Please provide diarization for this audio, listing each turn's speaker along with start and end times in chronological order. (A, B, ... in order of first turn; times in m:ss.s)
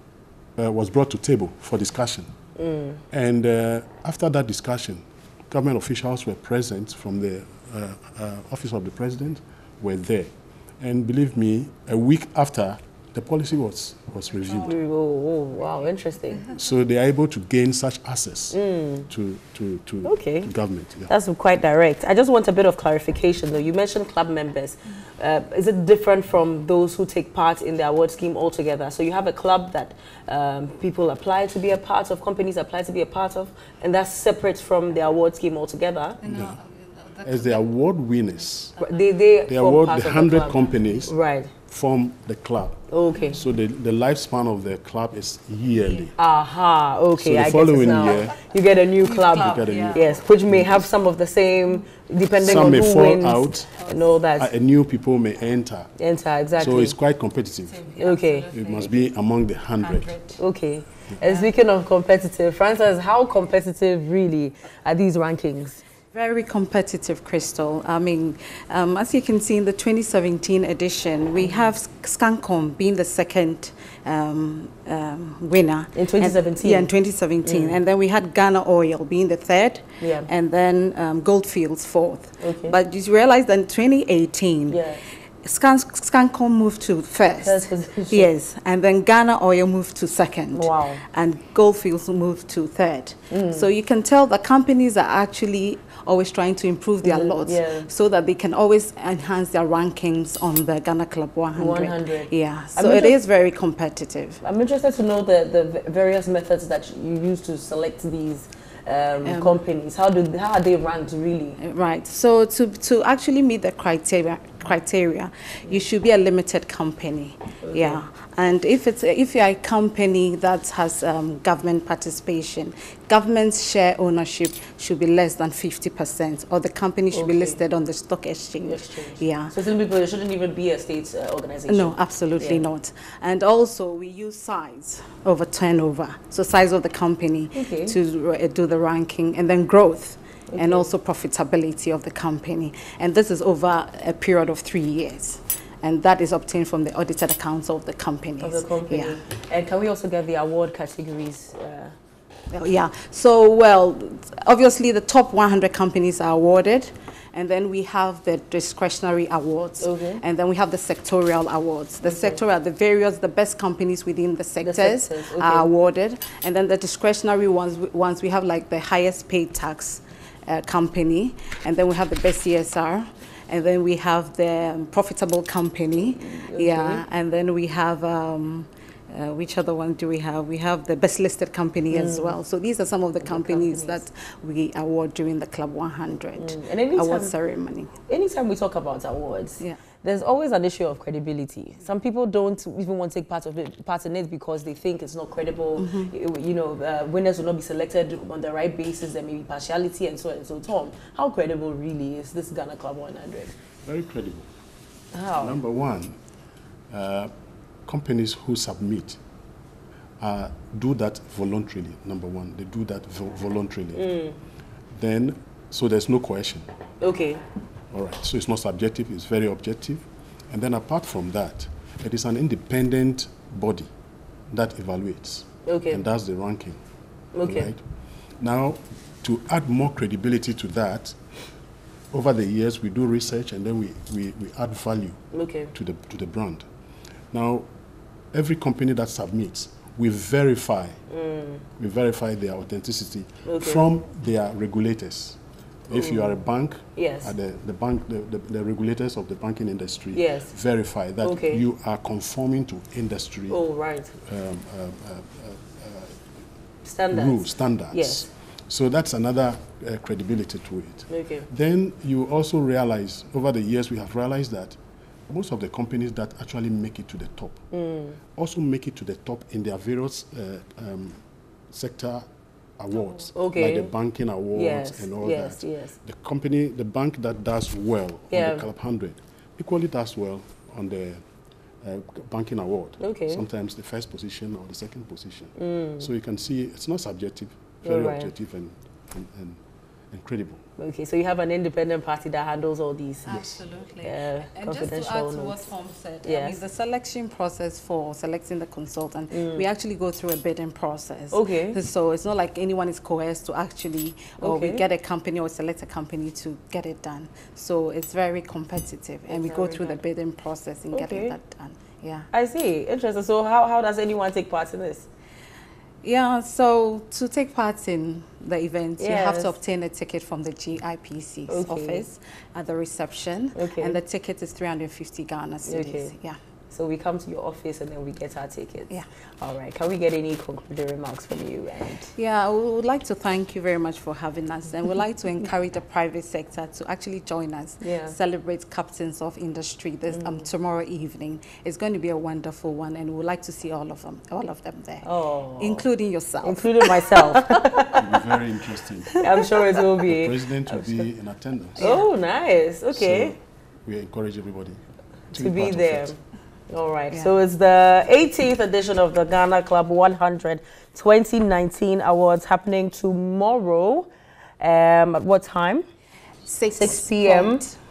0:00.6-0:02.3 A
0:02.6-0:03.0 B
0:03.1-0:14.8 A
0:14.6-0:16.5 B
0:16.5-0:21.1 A
0:18.5-0:19.1 B
0:20.0-0:20.5 B
0:21.1-0:36.2 B
0:36.2-0:37.2 C
0:36.3-0:36.6 A
0:37.2-0:38.8 A
0:38.8-0:41.5 B
0:39.5-0:41.2 A
0:41.7-0:46.1 A
0:42.9-0:43.4 B
0:46.2-0:54.5 B
0:47.2-0:48.4 A
0:49.0-0:50.2 C
0:49.3-0:50.9 A
0:52.3-0:53.8 A
0:54.3-0:55.9 A
0:56.0-0:57.0 B
0:56.6-0:57.9 A
0:57.7-0:59.0 C
0:58.0-0:58.7 B
0:58.5-1:00.2 A
0:59.8-1:00.4 C
1:00.4-1:05.8 B
1:06.1-1:24.8 C
1:15.9-1:16.9 B
1:17.4-1:17.8 B
1:20.0-1:20.3 B
1:22.4-1:22.8 B
1:24.7-1:25.0 B
1:25.4-1:44.4 C
1:27.4-1:28.3 B
1:30.5-1:31.0 B
1:33.3-1:33.7 B
1:37.0-1:37.9 B
1:41.5-1:43.1 B
1:44.4-1:51.6 B
1:49.2-1:49.6 C
1:51.6-2:09.5 C
1:57.6-1:58.0 B
2:07.1-2:07.6 B
2:08.6-2:12.7 B
2:11.7-2:29.2 C
2:17.5-2:18.0 B
2:20.5-2:20.9 B
2:28.4-2:31.9 B
2:32.5-3:07.9 C
2:39.8-2:40.2 B
2:42.0-2:42.4 B
2:44.6-2:45.7 B
2:56.1-2:57.0 B
3:01.9-3:02.4 B
3:03.2-3:04.0 B
3:06.4-3:07.3 B
3:08.1-3:23.5 B
3:15.8-3:16.1 C
3:23.8-3:24.5 A
3:25.1-3:25.6 B
3:25.3-3:26.2 A
3:26.9-3:27.3 A
3:27.8-3:29.2 A
3:30.2-3:34.1 A
3:33.9-3:34.4 B
3:34.9-3:36.6 A
3:37.0-3:37.4 B
3:37.9-3:43.9 A
3:44.5-3:46.8 A
3:45.6-3:46.0 B
3:47.3-3:47.7 B
3:47.4-3:47.8 A
3:48.4-3:51.2 A
3:52.1-3:55.2 A
3:55.3-3:55.7 B
3:55.7-3:56.6 A
3:57.3-3:57.7 A
3:58.3-4:01.0 A
4:01.1-4:01.6 B
4:01.8-4:13.6 A
4:03.4-4:03.8 B
4:05.9-4:06.4 B
4:07.0-4:07.3 B
4:10.1-4:10.5 B
4:11.2-4:11.6 B
4:13.5-4:14.1 B
4:14.2-4:16.2 A
4:16.8-4:18.3 B
4:17.1-4:24.8 A
4:21.1-4:21.5 B
4:25.3-4:27.6 A
4:27.7-4:28.2 B
4:28.4-4:32.2 A
4:32.8-4:41.2 A
4:33.3-4:33.9 B
4:34.5-4:36.0 B
4:38.3-4:38.7 B
4:41.8-4:50.6 A
4:43.0-4:43.4 B
4:45.6-4:46.1 B
4:47.8-4:48.3 B
4:50.8-4:53.4 B
4:53.2-5:12.3 C
4:54.0-4:55.6 B
4:56.2-4:56.6 B
4:59.3-4:59.6 B
5:01.3-5:01.8 B
5:04.4-5:04.8 B
5:09.3-5:10.0 B
5:10.9-5:11.3 B
5:12.3-5:15.1 B
5:16.0-5:26.4 C
5:19.0-5:19.5 B
5:21.5-5:22.0 B
5:23.5-5:24.0 B
5:25.6-5:26.1 B
5:26.7-5:32.1 B
5:32.2-5:47.9 C
5:37.8-5:38.1 B
5:45.0-5:45.8 B
5:46.4-5:48.2 B
5:47.9-5:49.2 A
5:49.2-5:51.0 B
5:50.0-5:51.9 A
5:51.8-5:53.3 B
5:51.8-5:52.0 C
5:52.9-5:54.8 A
5:55.3-5:56.1 A
5:55.3-5:56.2 B
5:56.7-6:04.1 B
6:04.6-6:05.8 B
6:06.4-6:07.8 C
6:06.7-6:07.6 B